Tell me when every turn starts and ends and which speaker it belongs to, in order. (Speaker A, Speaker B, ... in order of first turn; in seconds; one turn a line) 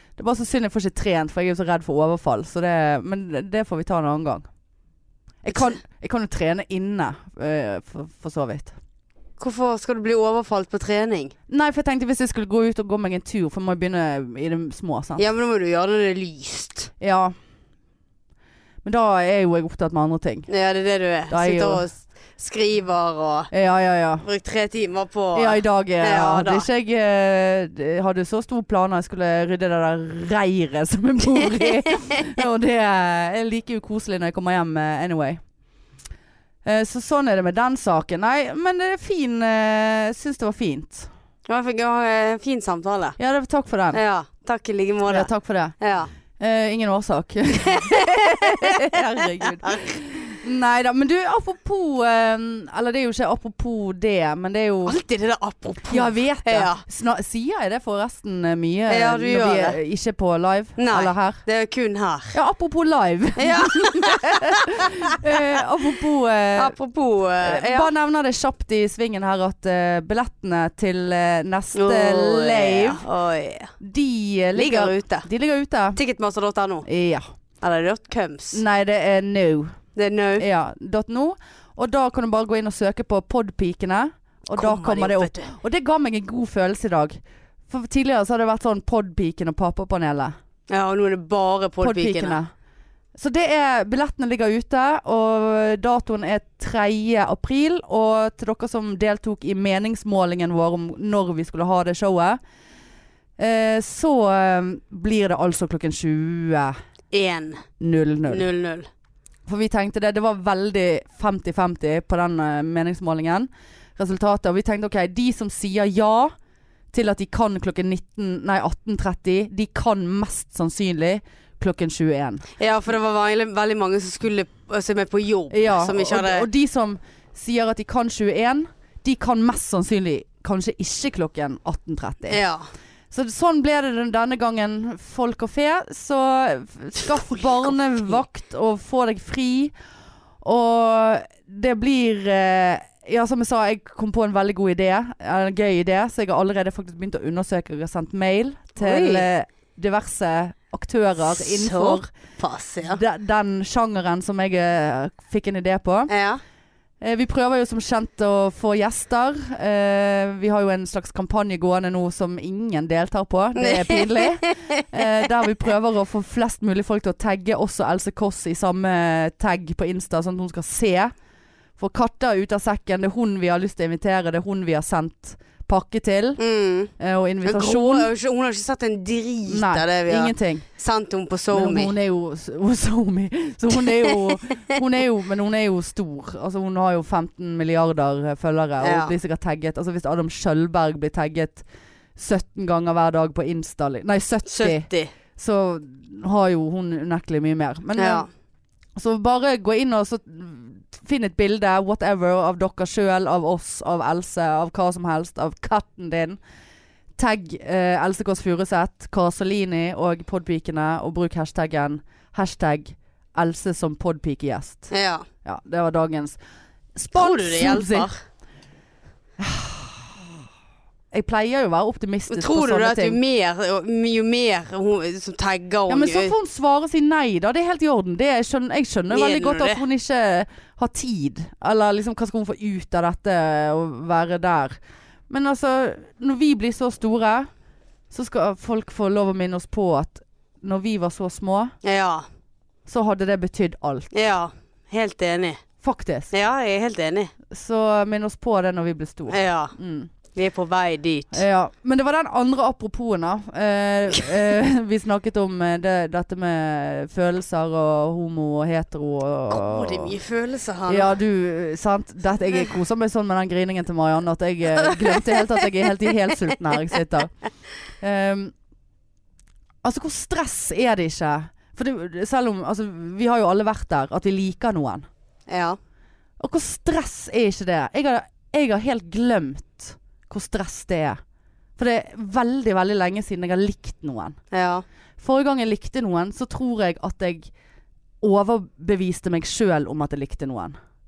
Speaker A: 0.2-4.5
Speaker A: 5.4-8.7
Speaker B: 5.5-5.8
Speaker B: 9.4-11.3
Speaker A: 11.5-15.3
Speaker B: 15.2-16.9
Speaker A: 17.0-17.3
Speaker A: 18.8-20.5
Speaker B: 20.5-23.5
Speaker A: 21.3-21.8
Speaker A: 23.5-24.2
Speaker B: 24.2-26.6
Speaker A: 25.3-35.4
Speaker A: 36.6-41.1
Speaker B: 41.5-43.2
Speaker A: 43.2-44.0
Speaker B: 43.9-46.1
Speaker A: 45.1-45.8
Speaker A: 46.4-55.0
Speaker B: 47.6-50.0
Speaker B: 54.8-56.8
Speaker A: 55.9-61.4
Speaker B: 58.9-59.8
Speaker B: 60.8-62.3
Speaker A: 62.3-66.7
Speaker B: 63.4-65.4
Speaker B: 66.5-67.9
Speaker A: 67.4-73.0
Speaker B: 71.7-73.7
Speaker A: 73.8-76.0
Speaker B: 74.5-75.3
Speaker B: 75.9-76.9
Speaker A: 76.8-77.2
Speaker B: 77.6-78.6
Speaker A: 78.5-79.7
Speaker B: 79.9-80.5
Speaker A: 80.4-87.2
Speaker B: 84.5-85.5
Speaker A: 87.7-90.3
Speaker B: 90.7-92.4
Speaker A: 91.8-92.5
Speaker A: 93.2-102.4
Speaker A: 103.4-106.8
Speaker B: 107.1-107.6
Speaker A: 107.8-108.5
Speaker B: 108.3-108.9
Speaker A: 109.5-116.3
Speaker A: 116.9-122.5
Speaker B: 122.6-126.5
Speaker A: 125.5-132.4
Speaker B: 132.3-132.6
Speaker A: 133.1-139.7
Speaker A: 140.4-152.1
Speaker B: 148.8-149.3
Speaker B: 151.3-153.0
Speaker A: 152.8-156.1
Speaker B: 156.1-156.4
Speaker A: 157.0-171.1
Speaker B: 163.6-164.8
Speaker A: 171.8-176.4
Speaker B: 176.4-176.9
Speaker A: 177.0-178.1
Speaker B: 177.4-181.9
Speaker A: 179.5-180.7
Speaker A: 181.5-191.6
Speaker B: 184.1-184.6
Speaker B: 188.8-189.1
Speaker A: 192.2-198.2
Speaker B: 194.4-195.1
Speaker B: 198.0-198.3
Speaker A: 198.9-206.4
Speaker A: 207.2-214.9
Speaker B: 214.9-215.2
Speaker A: 215.4-216.4
Speaker A: 216.9-218.1
Speaker B: 217.1-218.2
Speaker A: 219.4-220.3
Speaker A: 221.1-223.2
Speaker B: 222.3-226.3
Speaker A: 225.9-237.5
Speaker B: 229.1-229.8
Speaker A: 238.1-241.7
Speaker B: 241.8-242.2
Speaker A: 242.9-244.1
Speaker B: 244.1-245.6
Speaker A: 245.8-246.3
Speaker B: 246.3-247.3
Speaker A: 247.5-250.1
Speaker B: 249.3-249.7
Speaker B: 250.3-251.4
Speaker A: 251.3-260.1
Speaker B: 259.5-261.2
Speaker A: 260.9-267.3
Speaker B: 265.0-265.4
Speaker A: 268.0-268.5
Speaker A: 269.8-275.1
Speaker B: 275.5-275.8
Speaker A: 276.4-281.2
Speaker A: 281.8-284.4
Speaker B: 284.5-284.8
Speaker A: 285.2-287.5
Speaker A: 288.2-290.8